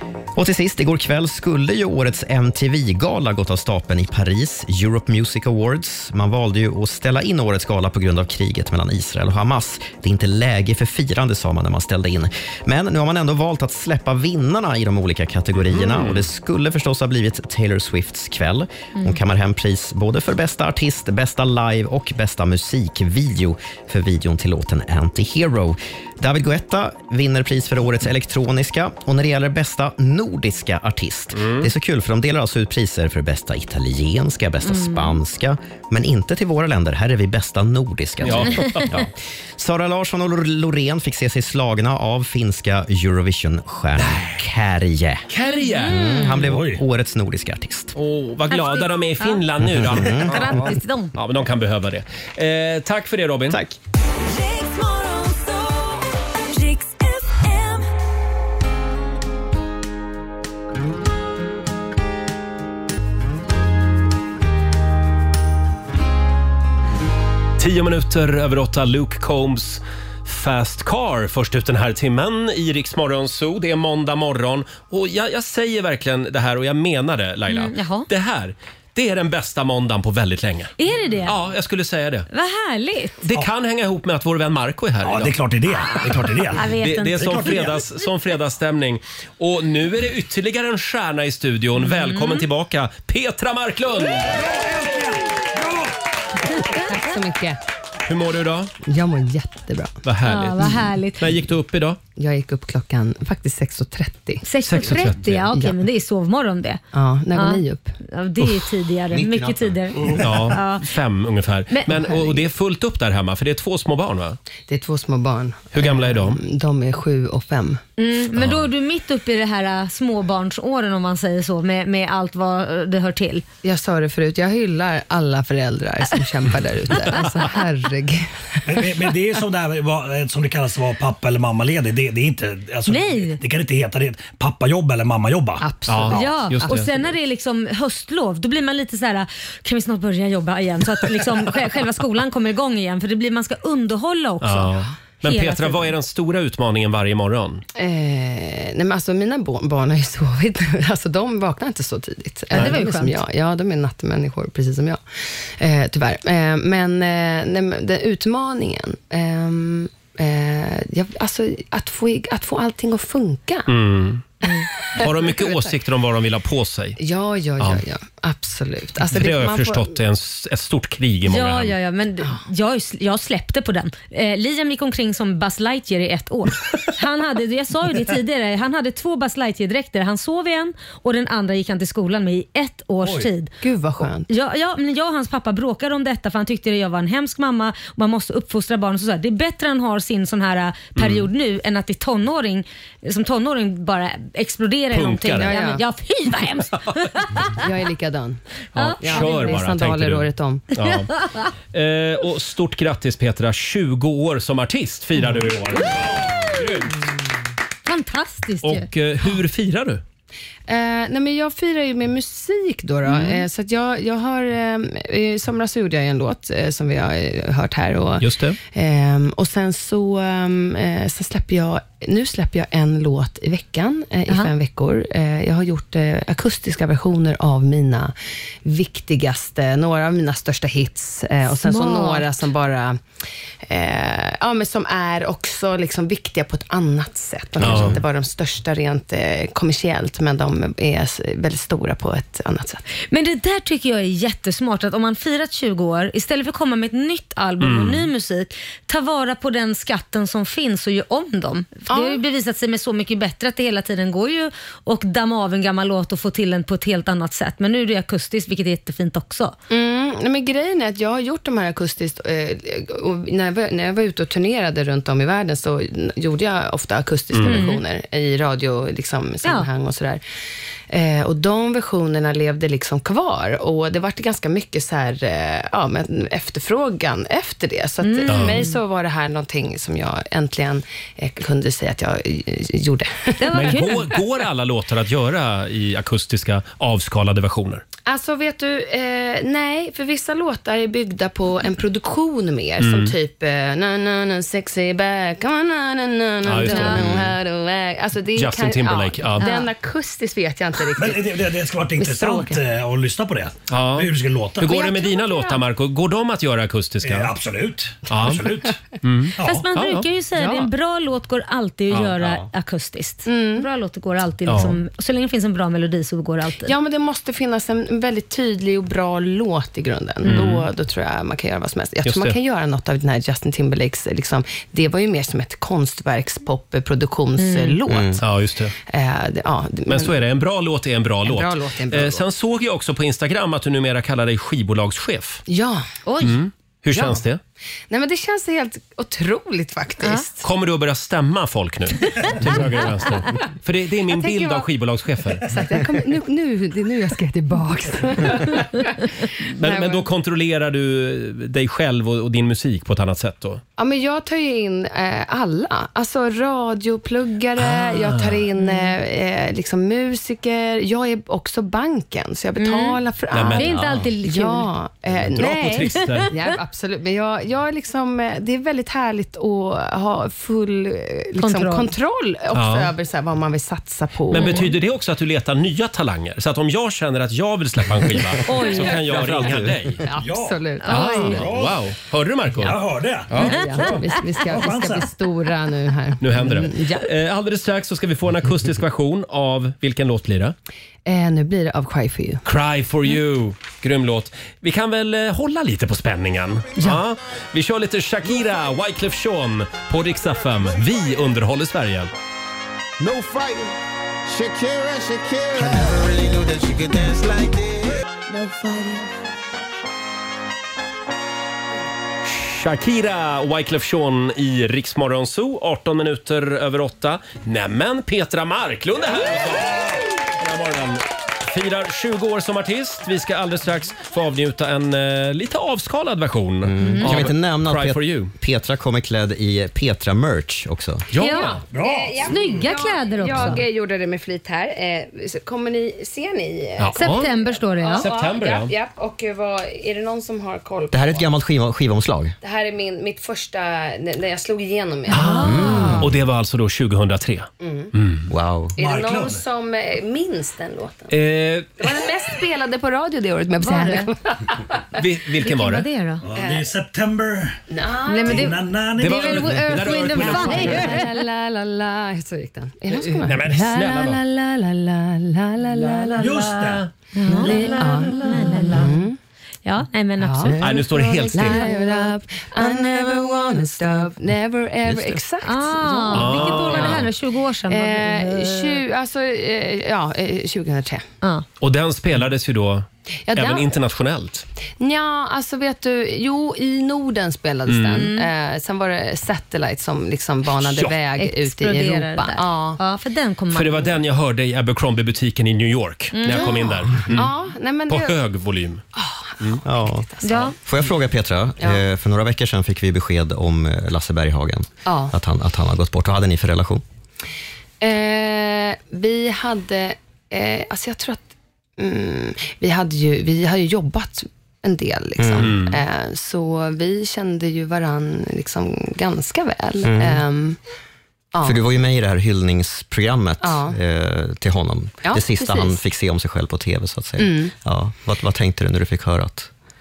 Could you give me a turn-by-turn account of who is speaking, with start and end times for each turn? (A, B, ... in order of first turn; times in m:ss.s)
0:00.4-0:45.3 A
0:15.6-0:16.3 B
0:31.4-0:31.7 B
0:34.6-0:35.2 C
0:38.2-0:39.0 B
0:45.3-0:46.0 B
0:45.5-0:46.5 C
0:45.8-0:47.9 A
0:46.4-0:46.8 D
0:48.0-0:50.6 B
0:48.5-0:49.4 C
0:49.6-0:50.6 A
0:50.2-0:51.2 C
0:51.2-0:53.6 B
0:53.5-0:53.8 A
1:07.6-1:20.7 B
1:17.5-1:18.1 C
1:20.8-1:21.4 C
1:21.2-1:22.3 B
1:22.3-1:23.2 C
1:23.3-1:25.4 B
1:25.0-1:27.8 D
1:26.6-1:27.6 C
1:26.8-1:34.4 B
1:31.8-1:32.4 C
1:34.4-1:35.9 D
1:36.8-1:37.6 E
1:38.1-1:38.7 B
1:38.8-1:40.0 E
1:40.0-1:42.0 B
1:40.3-1:41.2 C
1:42.2-1:44.5 E
1:44.4-1:46.8 C
1:44.6-1:45.5 B
1:45.5-1:45.8 E
1:46.9-1:48.0 E
1:47.4-1:50.8 C
1:49.1-1:50.1 A
1:50.2-1:54.4 B
1:51.7-1:52.0 C
1:52.0-1:52.4 E
1:54.7-1:57.8 E
1:55.7-1:56.4 B
1:58.0-2:03.4 C
2:03.6-2:08.6 E
2:08.7-2:16.2 D
2:12.9-2:13.4 C
2:15.6-2:16.8 E
2:15.9-2:16.9 B
2:16.1-2:25.9 C
2:24.4-2:27.6 B
2:27.8-2:35.0 E
2:32.5-2:32.8 B
2:32.5-2:33.2 C
2:35.6-2:43.7 E
2:43.7-2:44.2 B
2:44.6-2:45.8 E
2:45.0-2:47.0 B
2:47.0-2:49.9 E
2:49.1-2:51.8 B
2:51.3-3:03.5 C
3:03.0-3:03.3 D
3:03.6-3:04.3 E
3:04.0-3:17.6 C
3:11.0-3:11.3 B
3:14.9-3:15.6 B
3:15.4-3:15.8 E
3:17.6-3:18.4 E
3:18.8-3:21.1 B
3:18.8-3:19.6 C
3:19.0-3:20.6 E
3:21.7-3:26.9 B
3:27.9-3:28.9 C
3:28.6-3:30.0 B
3:30.7-3:48.1 E
3:33.1-3:33.4 C
3:38.2-3:38.6 B
3:48.6-3:53.0 E
3:51.6-3:52.3 C
3:53.7-4:02.8 E
3:57.6-3:58.0 A
3:57.6-3:58.0 B
4:03.1-4:19.5 C
4:07.6-4:08.1 B
4:11.9-4:12.2 E
4:19.7-4:30.2 E
4:27.3-4:27.6 B
4:27.4-4:27.8 C
4:30.9-4:43.8 E
4:38.0-4:38.8 C
4:38.3-4:38.6 B
4:43.4-4:44.1 C
4:43.5-4:47.8 B
4:48.1-5:01.4 E
4:52.8-4:53.2 B
4:56.4-4:57.2 B
4:56.5-4:57.0 C
4:56.9-4:57.3 A
4:58.4-4:59.5 B
4:59.4-4:59.7 C
5:01.0-5:04.8 D
5:02.0-5:02.6 E
5:03.7-5:07.3 B
5:05.0-5:05.5 C
5:07.0-5:08.8 D
5:08.1-5:10.1 B
5:09.4-5:09.6 D
5:09.4-5:16.7 C
5:10.4-5:10.7 E
5:11.9-5:12.4 B
5:13.2-5:13.7 E
5:14.5-5:14.8 B
5:16.6-5:28.2 E
5:20.2-5:20.7 B
5:22.0-5:22.4 B
5:27.4-5:27.8 C
5:27.9-5:28.2 A
5:28.2-5:28.7 B
5:28.9-5:30.1 E
5:29.9-5:35.4 B
5:31.2-5:32.2 E
5:35.5-5:35.9 E
5:36.1-5:36.4 C
5:36.2-5:37.4 B
5:36.9-5:37.2 E
5:37.9-5:40.5 E
5:40.4-5:45.5 B
5:44.1-5:44.7 E
5:45.5-5:50.0 E
5:49.4-5:53.6 B
5:53.8-6:14.7 E
5:57.6-5:58.5 B
5:58.6-5:58.9 C
6:02.6-6:03.0 C
6:03.3-6:03.8 B
6:03.5-6:04.7 C
6:03.7-6:04.1 A
6:05.1-6:06.3 B
6:11.4-6:11.9 C
6:12.5-6:13.0 B
6:14.3-6:20.0 B
6:14.3-6:14.7 C
6:18.4-6:19.0 C
6:19.1-6:19.8 A
6:20.0-6:21.5 E
6:20.2-6:20.6 D
6:20.8-6:21.4 C
6:20.9-6:22.8 B
6:21.2-6:21.8 D
6:22.6-6:25.1 D
6:23.3-6:24.0 B
6:23.4-6:27.1 E
6:26.2-6:30.6 B
6:31.1-6:32.4 E
6:32.4-6:42.1 B
6:43.0-6:43.6 F
6:44.4-6:44.9 F
6:45.6-6:47.7 F
6:52.2-7:08.3 B
7:06.6-7:11.1 A
7:06.8-7:07.1 C
7:11.1-7:11.5 B
7:11.2-7:11.6 C
7:11.2-7:21.3 E
7:11.7-7:12.3 D
7:12.2-7:13.6 C
7:16.8-7:17.3 B
7:17.0-7:18.1 C
7:18.0-7:18.7 B
7:20.9-7:22.4 A
7:22.4-7:26.0 E
7:25.1-7:28.3 B
7:25.1-7:26.0 C
7:25.4-7:26.1 A
7:27.6-7:27.9 E
7:28.3-7:28.8 A
7:28.8-7:31.1 E
7:28.8-7:29.4 D
7:31.1-7:31.7 B
7:31.8-7:34.8 E
7:33.6-7:34.1 C
7:35.0-7:35.9 B
7:35.4-7:36.2 C
7:36.3-7:37.6 D
7:36.3-7:36.7 E
7:37.7-7:38.6 E
7:38.1-7:41.2 C
7:38.2-7:40.8 D
7:39.0-7:41.0 B
7:40.5-7:46.4 E
7:42.9-7:44.2 B
7:45.8-7:46.9 B
7:46.2-7:46.9 D
7:47.2-7:48.9 C
7:47.3-7:49.2 E
7:47.6-7:48.6 B
7:49.6-7:50.6 C
7:50.2-7:57.0 E
7:50.6-7:51.7 B
7:51.3-7:52.0 C
7:54.9-7:55.2 A
7:55.4-7:58.8 C
7:56.1-7:57.1 B
7:57.7-8:01.0 E
8:01.6-8:04.5 B
8:03.3-8:03.7 E
8:04.8-8:12.8 E
8:07.7-8:08.1 B
8:08.0-8:08.3 C
8:10.5-8:11.0 B
8:11.2-8:13.9 C
8:13.5-8:17.3 B
8:16.2-8:16.6 C
8:16.3-8:18.2 E
8:17.9-8:18.8 B
8:18.9-8:20.6 E
8:19.6-8:26.8 A
8:20.2-8:20.6 C
8:24.8-8:25.1 E
8:27.8-8:40.6 E
8:35.2-8:35.5 A
8:35.4-8:35.8 B
8:39.8-8:40.2 A
8:41.3-8:41.6 E
8:41.4-8:49.5 A
8:43.4-8:43.8 E
8:45.0-8:45.8 E
8:47.2-8:47.5 E